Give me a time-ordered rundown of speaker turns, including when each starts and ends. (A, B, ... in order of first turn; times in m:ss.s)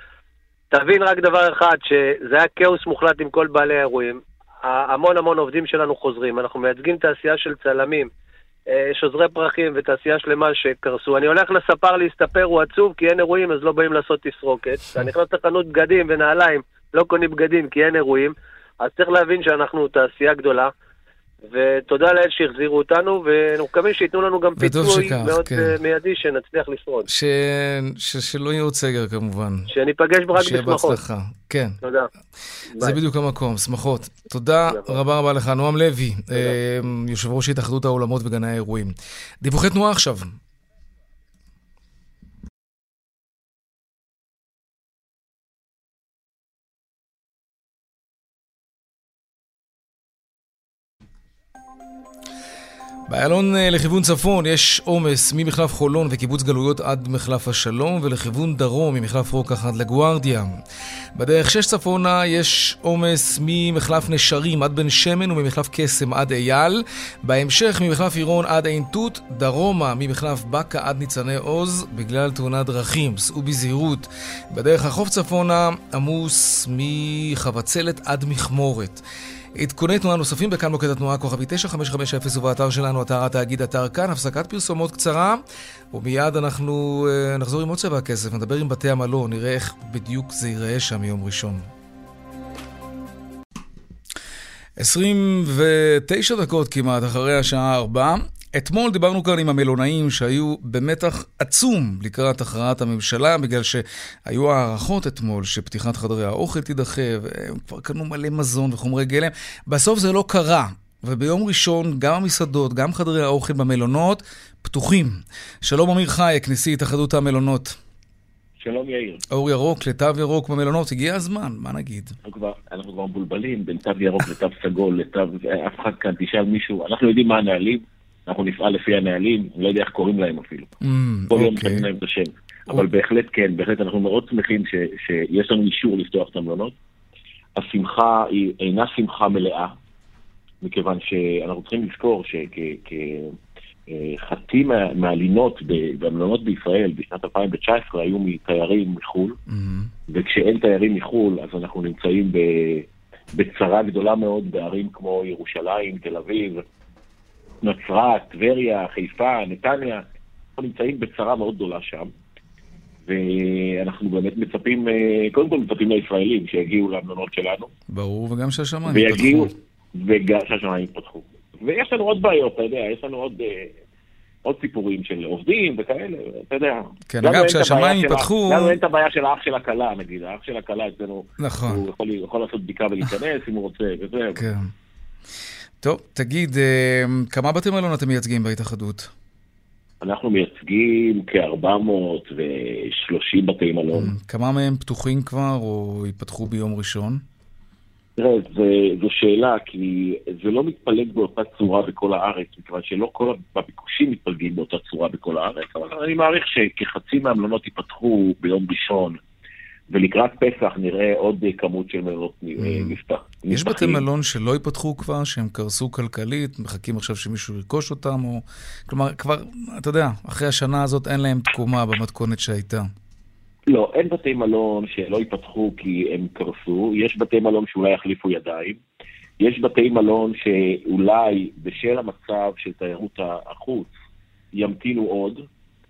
0:00.7-0:08.1 A
0:08.7-0:20.7 A
0:21.5-0:27.1 A
0:24.6-0:25.7 B
0:27.1-0:29.7 B
0:29.7-0:31.0 A
0:30.3-0:31.8 B
0:31.8-0:32.1 A
0:32.8-0:40.4 B
0:34.7-0:35.0 A
0:53.1-1:00.5 B
1:01.1-1:19.0 B
1:19.6-1:31.7 B
1:34.8-1:57.8 B
1:58.6-1:59.2 C
1:59.3-2:02.2 B
2:02.2-2:10.7 C
2:10.8-2:11.9 B
2:11.3-2:16.7 C
2:17.6-2:19.8 C
2:20.6-2:23.3 C
2:23.9-2:29.4 C
2:29.5-2:29.9 B
2:30.1-2:36.6 C
2:37.6-2:40.0 C
2:40.6-2:42.1 C
2:43.0-2:47.7 C
2:47.9-2:49.5 B
2:48.9-2:53.7 C
2:54.4-3:04.4 C
2:57.1-2:58.8 B
3:01.4-3:01.8 B
3:04.4-3:04.7 B
3:05.8-3:09.1 B
3:10.0-3:14.1 C
3:13.9-3:17.2 B
3:18.2-3:29.2 C
3:29.9-3:34.0 C
3:32.6-3:33.0 B
3:33.5-3:42.9 B
3:43.7-3:48.8 C
3:49.4-3:53.9 C
3:54.6-3:55.4 C